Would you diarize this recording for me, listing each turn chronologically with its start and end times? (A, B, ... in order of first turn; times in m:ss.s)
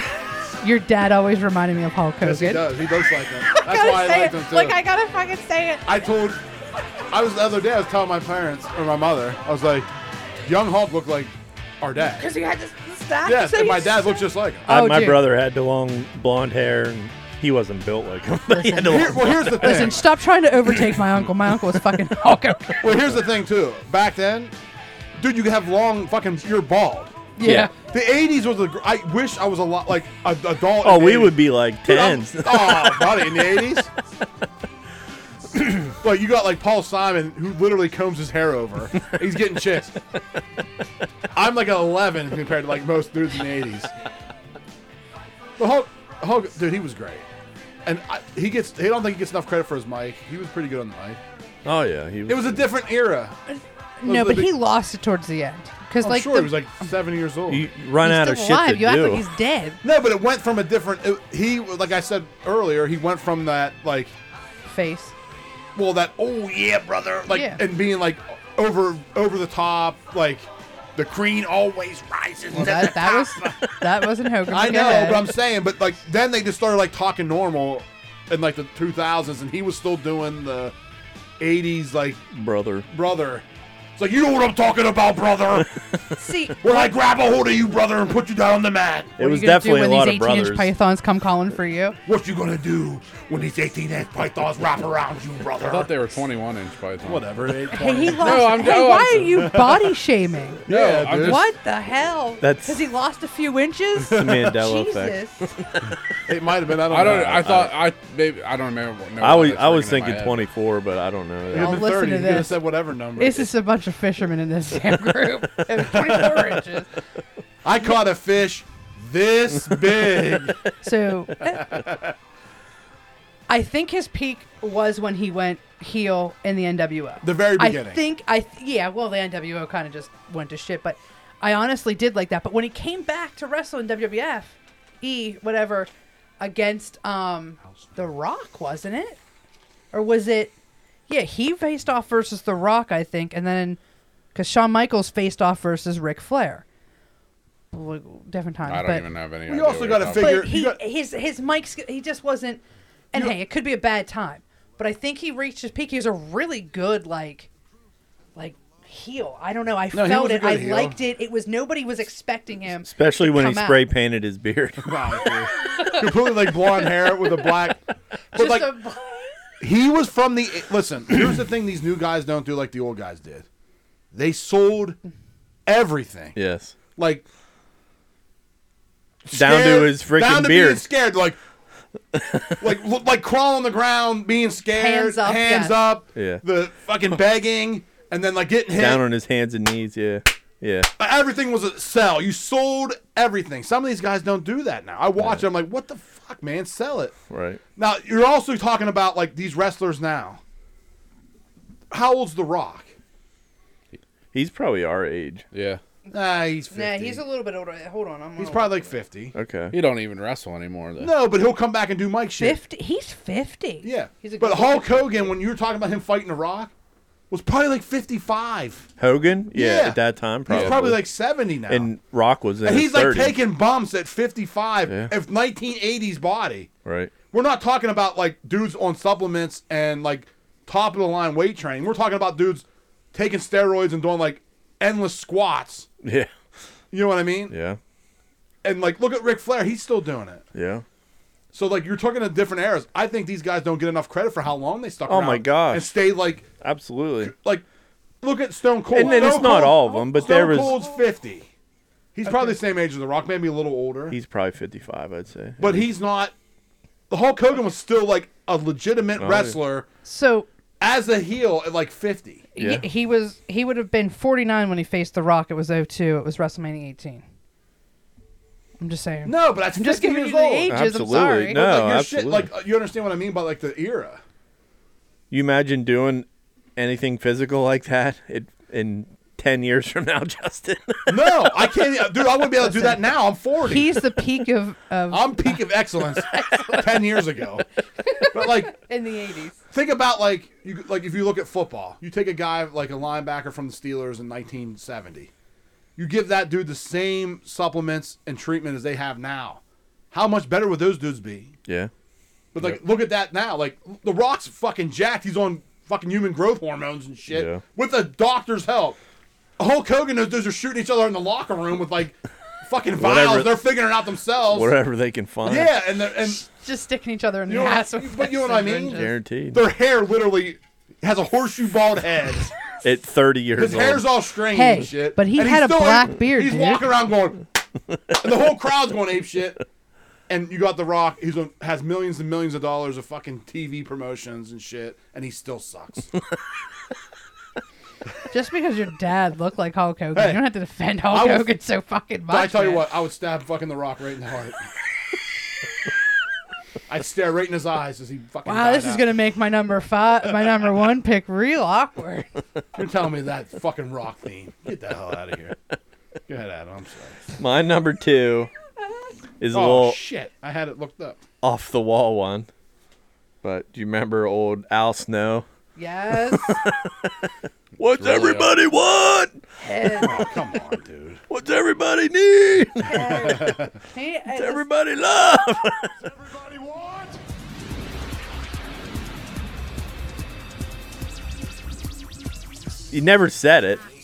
0:00.6-0:02.8 A
0:02.2-0:04.8 B
0:03.5-0:05.9 A
0:05.8-0:06.4 B
0:07.1-0:09.9 B
0:10.4-0:12.3 B
0:12.2-0:15.2 A
0:13.2-0:14.6 B
0:14.7-0:19.9 C
0:18.5-0:22.8 A
0:18.8-0:20.0 B
0:22.8-0:24.5 B
0:25.2-0:27.2 B
0:27.4-0:27.7 A
0:27.4-0:27.7 C
0:27.8-0:33.9 B
0:30.8-0:33.5 C
0:35.5-0:40.0 B
0:41.3-0:43.9 B
0:45.6-0:47.3 B
0:47.8-0:51.2 B
0:51.6-0:52.6 C
0:52.3-0:53.4 B
0:53.5-0:56.7 A
0:54.0-0:54.5 B
0:56.0-0:57.7 B
0:57.5-0:59.2 C
0:58.0-0:59.8 A
0:59.8-1:04.1 B
1:04.6-1:05.1 A
1:05.7-1:13.7 B
1:07.3-1:07.6 A
1:12.5-1:15.3 A
1:14.5-1:20.7 B
1:21.4-1:22.2 B
1:22.3-1:22.9 C
1:22.9-1:23.4 B
1:24.0-1:25.7 B
1:26.2-1:26.9 A
1:26.6-1:29.2 B
1:29.2-1:30.7 C
1:29.2-1:32.0 A
1:32.0-1:35.9 B
1:35.7-1:37.5 D
1:37.0-1:39.8 B
1:37.7-1:40.6 A
1:38.2-1:39.6 D
1:40.6-1:41.4 B
1:40.7-1:41.4 D
1:41.2-1:45.6 A
1:42.4-1:42.9 C
1:44.1-1:45.5 C
1:46.2-1:47.7 B
1:46.9-1:50.4 D
1:49.2-1:51.9 C
1:51.5-1:53.5 B
1:51.5-1:52.6 A
1:53.2-1:56.9 A
1:55.8-1:56.4 B
1:57.6-2:00.6 B
2:00.8-2:01.7 A
2:01.4-2:02.1 B
2:03.5-2:15.9 A
2:07.2-2:08.0 B
2:16.4-2:19.2 A
2:19.9-2:20.5 A
2:21.1-2:23.8 A
2:24.3-2:26.6 A
2:27.7-2:29.1 A
2:28.6-2:30.4 D
2:29.5-2:30.8 B
2:30.2-2:37.5 A
2:38.3-2:43.8 A
2:39.9-2:41.0 B
2:42.9-2:45.1 C
2:44.8-2:47.8 B
2:45.7-2:46.0 A
2:48.3-2:49.4 A
2:48.3-2:48.8 B
2:49.6-2:53.4 B
2:54.1-2:55.0 B
2:55.6-2:56.4 B
2:56.4-2:56.8 C
2:57.0-2:57.2 B
2:59.2-3:01.4 B
2:59.3-3:00.8 C
3:02.1-3:02.6 C
3:02.6-3:09.0 B
3:04.7-3:05.7 A
3:06.2-3:06.4 C
3:08.7-3:10.9 C
3:11.0-3:17.1 B
3:15.2-3:15.4 C
3:17.3-3:17.6 C
3:17.8-3:20.4 B
3:21.9-3:22.9 B
3:24.3-3:25.4 C
3:25.5-3:25.8 D
3:26.1-3:27.2 B
3:26.7-3:28.9 A
3:28.4-3:29.3 B
3:29.3-3:29.8 C
3:29.7-3:31.1 D
3:31.0-3:32.6 B
3:32.4-3:35.3 A
3:33.8-3:36.7 B
3:37.3-3:38.9 B
3:39.0-3:41.1 C
3:39.5-3:41.9 B
3:40.5-3:40.8 D
3:41.7-3:43.4 C
3:42.6-3:46.7 B
3:46.8-3:47.1 C
3:47.3-3:55.9 B
3:56.0-3:56.3 C
3:56.9-3:57.5 B
3:57.5-3:57.8 C
3:58.6-4:00.4 B
4:00.5-4:00.8 C
4:01.5-4:06.4 B
4:05.1-4:05.9 C
4:06.6-4:07.3 C
4:07.2-4:07.6 B
4:08.2-4:11.5 B
4:08.9-4:10.8 C
4:09.0-4:11.0 A
4:12.1-4:14.2 B
4:14.1-4:15.8 C
4:15.6-4:16.3 B
4:17.1-4:19.9 B
4:19.2-4:19.6 C
4:20.0-4:20.5 A
4:20.8-4:22.4 B
4:22.6-4:27.2 A
4:22.6-4:22.8 C
4:28.8-4:31.6 A
4:29.2-4:30.7 B
4:30.7-4:32.5 C
4:31.5-4:34.2 B
4:35.3-4:36.2 C
4:36.8-4:41.5 C
4:41.1-4:44.0 B
4:42.6-4:43.0 A
4:43.6-4:47.2 A
4:45.1-4:47.6 B
4:48.0-4:49.6 A
4:48.3-4:48.8 B
4:49.7-4:55.3 B
4:56.0-5:01.5 B
5:02.5-5:09.0 B
5:07.3-5:07.6 C
5:09.6-5:14.7 B
5:13.0-5:13.6 C
5:14.5-5:15.7 C
5:15.4-5:16.4 B
5:16.4-5:19.1 A
5:17.5-5:22.5 B
5:18.9-5:19.6 C
5:22.8-5:24.0 C
5:23.6-5:27.4 B
5:24.5-5:26.8 A
5:28.1-5:29.6 B
5:30.3-5:36.1 B
5:38.3-5:42.9 A
5:40.1-5:40.4 B
5:41.1-5:41.5 B
5:42.3-5:44.7 B
5:46.9-5:49.1 B
5:48.4-5:52.3 A
5:52.7-5:55.6 B
5:56.3-5:57.2 B
5:57.4-5:58.5 C
5:59.4-6:00.0 C
5:59.5-6:01.2 B
6:01.4-6:02.5 C
6:03.4-6:05.4 C
6:05.8-6:06.6 A
6:06.3-6:07.1 C
6:07.8-6:09.4 C
6:08.0-6:08.5 D
6:09.6-6:10.2 A
6:10.0-6:11.2 B
6:11.3-6:13.5 C
6:12.8-6:14.6 A
6:14.3-6:16.0 C
6:22.9-6:23.8 C